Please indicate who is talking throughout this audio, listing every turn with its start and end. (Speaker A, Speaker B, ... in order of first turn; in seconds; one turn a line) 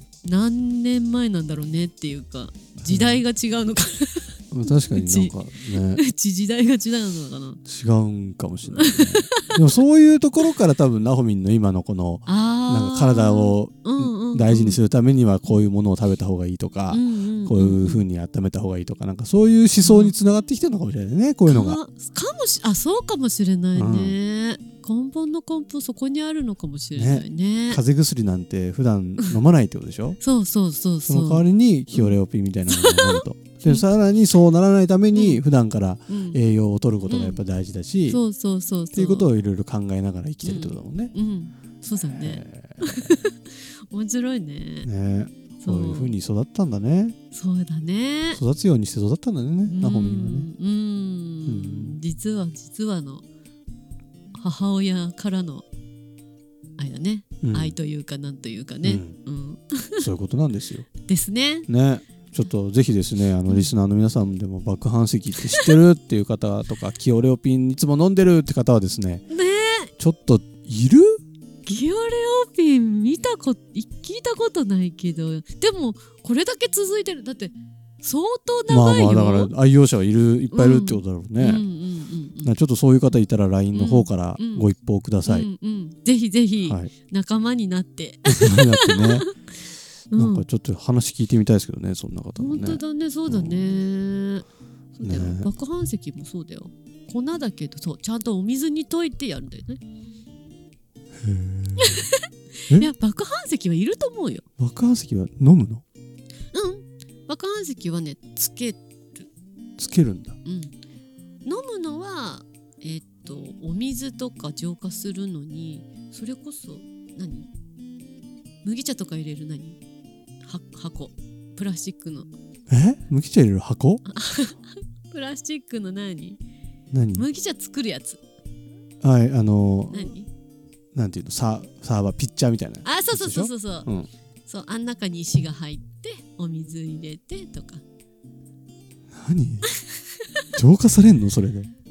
Speaker A: 0.2-7.6
Speaker B: 2.8-3.2
Speaker B: 4.5-6.0
Speaker B: 7.7-21.8
Speaker A: 8.7-9.6
Speaker A: 12.3-14.8
Speaker A: 16.9-18.1
Speaker A: 19.8-20.1
Speaker A: 21.5-27.8
Speaker B: 23.8-24.2
Speaker B: 26.9-30.2
Speaker A: 30.2-32.2
Speaker B: 31.1-38.2
Speaker A: 32.7-33.8
Speaker A: 35.1-35.4
Speaker A: 36.1-36.4
Speaker A: 37.1-37.4
Speaker A: 38.1-39.3
Speaker B: 38.9-41.1
Speaker A: 40.4-44.9
Speaker B: 42.0-43.1
Speaker B: 44.8-47.1
Speaker A: 45.6-46.1
Speaker A: 47.3-48.4
Speaker B: 48.3-50.5
Speaker A: 49.7-53.2
Speaker B: 51.5-52.0
Speaker A: 54.3-55.7
Speaker A: 56.8-60.1
Speaker B: 57.4-57.8
Speaker B: 58.8-59.2
Speaker B: 60.0-60.9
Speaker A: 61.1-61.7
Speaker B: 61.7-69.2
Speaker A: 65.5-65.8
Speaker A: 69.3-69.9
Speaker B: 70.0-71.2
Speaker A: 71.7-79.5
Speaker B: 78.7-81.7
Speaker A: 80.5-82.5
Speaker B: 82.4-85.5
Speaker A: 83.7-84.7
Speaker A: 85.2-89.6
Speaker B: 86.6-86.9
Speaker B: 88.2-89.3
Speaker A: 90.1-90.5
Speaker B: 90.2-93.7
Speaker A: 92.4-94.5
Speaker A: 95.0-99.8
Speaker B: 95.0-95.5
Speaker B: 101.2-102.1
Speaker A: 101.8-104.4
Speaker B: 104.6-105.8
Speaker A: 106.5-109.2
Speaker B: 109.8-110.4
Speaker A: 110.5-110.8
Speaker A: 111.5-117.5
Speaker A: 118.6-119.8
Speaker A: 120.4-122.3
Speaker B: 122.7-124.0
Speaker A: 124.0-126.4
Speaker B: 126.9-127.3
Speaker A: 127.2-128.2
Speaker B: 129.0-130.1
Speaker A: 129.9-130.3
Speaker B: 130.9-134.1
Speaker A: 132.8-133.9
Speaker A: 134.5-137.8
Speaker B: 139.1-139.7
Speaker B: 140.6-141.7